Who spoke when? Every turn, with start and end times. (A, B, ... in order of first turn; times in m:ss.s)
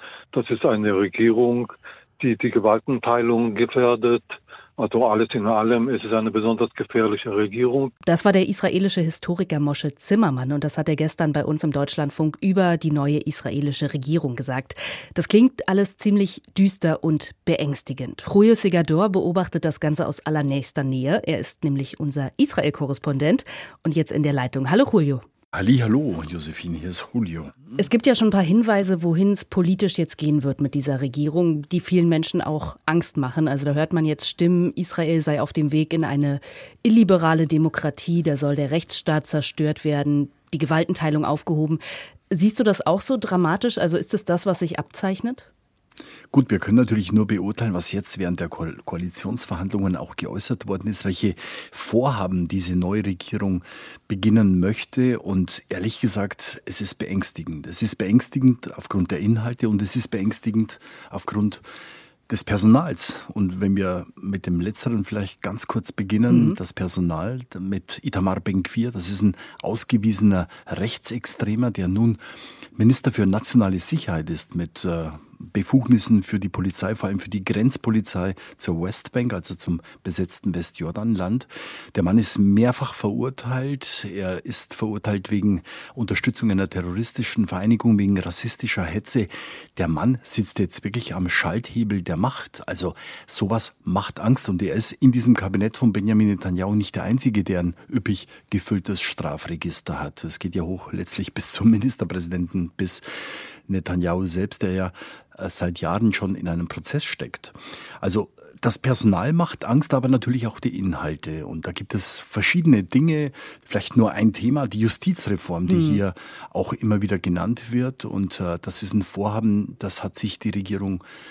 0:00.3-0:07.9 A
0:08.0-0:25.2 B
0:25.5-0:27.6 C
0:27.8-0:45.5 B
0:46.3-1:01.6 C
1:02.3-1:12.2 C
1:06.3-1:06.6 B
1:12.7-1:43.0 C
1:43.6-2:01.0 C
1:55.7-1:56.0 B